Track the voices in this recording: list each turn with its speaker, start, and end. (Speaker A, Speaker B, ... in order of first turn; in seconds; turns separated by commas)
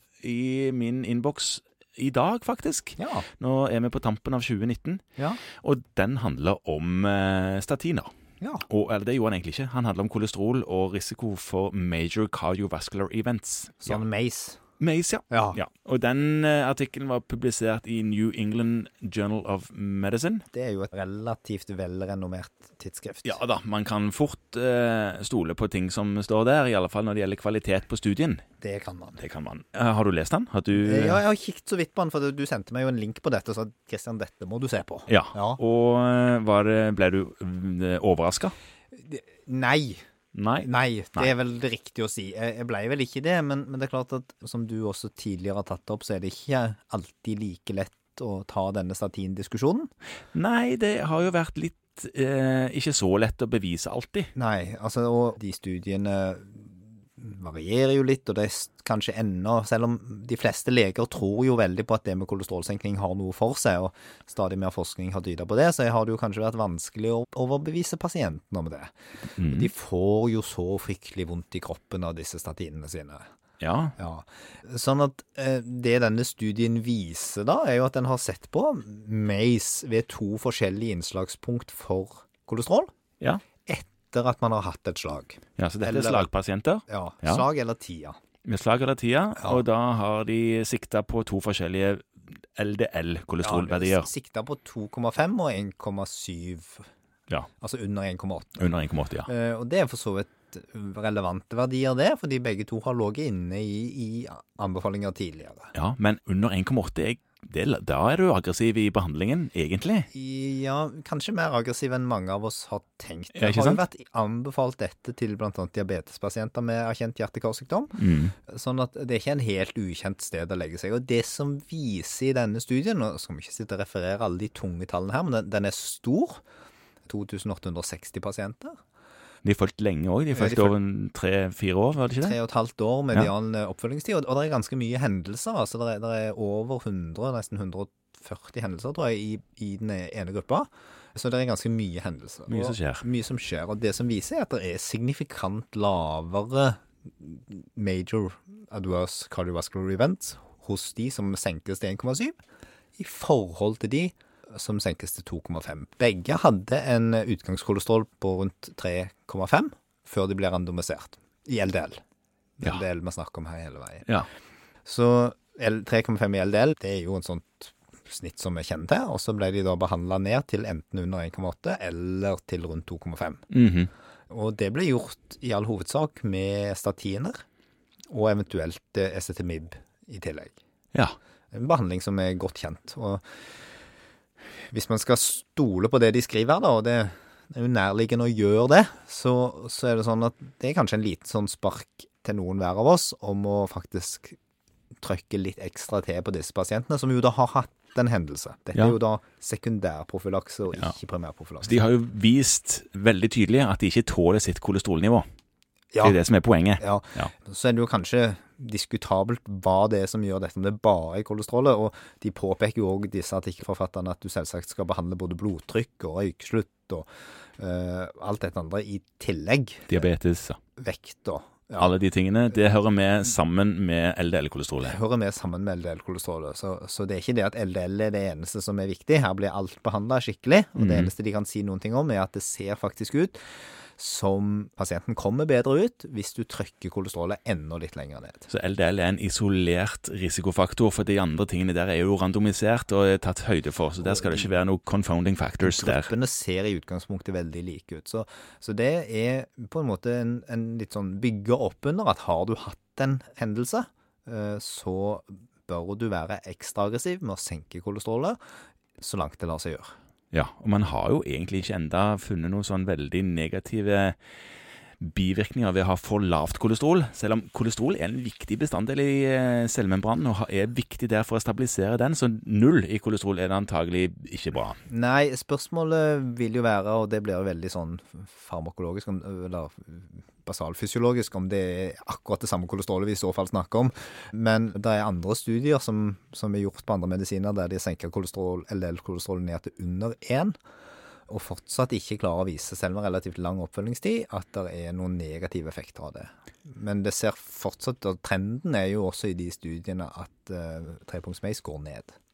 Speaker A: 0.2-8.1, Speaker B: 3.0-3.3, Speaker B: 5.2-5.4, Speaker B: 8.4-8.7, Speaker A: 8.7-14.0, Speaker B: 13.8-14.6, Speaker A: 14.8-20.4, Speaker B: 15.3-15.6, Speaker B: 20.5-23.4, Speaker A: 23.2-28.5, Speaker B: 28.6-29.2, Speaker A: 29.2-31.2, Speaker B: 30.7-35.6, Speaker A: 35.1-38.5, Speaker B: 38.9-40.0, Speaker A: 40.3-41.3, Speaker B: 40.6-49.9, Speaker A: 50.3-54.3, Speaker B: 54.4-73.2, Speaker A: 69.4-69.7, Speaker A: 73.6-74.0, Speaker B: 74.0-82.9, Speaker B: 83.5-86.3, Speaker A: 85.6-87.5, Speaker B: 86.9-88.2, Speaker A: 88.5-94.1, Speaker B: 89.4-89.7, Speaker B: 93.4-96.9, Speaker B: 97.6-98.7, Speaker A: 98.6-99.3, Speaker B: 99.3-105.7, Speaker A: 105.7-110.1, Speaker B: 110.1-126.4, Speaker A: 113.3-113.8, Speaker A: 118.0-118.3, Speaker B: 127.1-128.8, Speaker A: 129.4-132.4, Speaker B: 130.3-130.8, Speaker B: 132.2-152.4, Speaker A: 142.5-143.0, Speaker B: 153.0-162.0, Speaker B: 162.6-164.1, Speaker B: 164.8-173.4, Speaker A: 173.5-173.9, Speaker B: 174.3-177.4, Speaker B: 178.1-180.6, Speaker B: 181.5-183.2, Speaker B: 184.7-194.4, Speaker B: 195.0-201.8, Speaker A: 201.6-205.2, Speaker B: 205.9-206.2, Speaker A: 206.0-207.3, Speaker B: 206.8-217.1, Speaker B: 217.6-220.1, Speaker A: 219.9-220.6, Speaker B: 220.8-221.9, Speaker A: 221.8-225.0, Speaker B: 224.8-233.4, Speaker A: 230.8-231.1, Speaker B: 234.0-238.5, Speaker A: 238.5-246.1, Speaker B: 244.0-244.5, Speaker B: 245.6-258.4, Speaker B: 259.0-260.0, Speaker A: 260.3-264.2, Speaker A: 265.0-274.8, Speaker B: 274.9-290.6, Speaker B: 291.3-302.2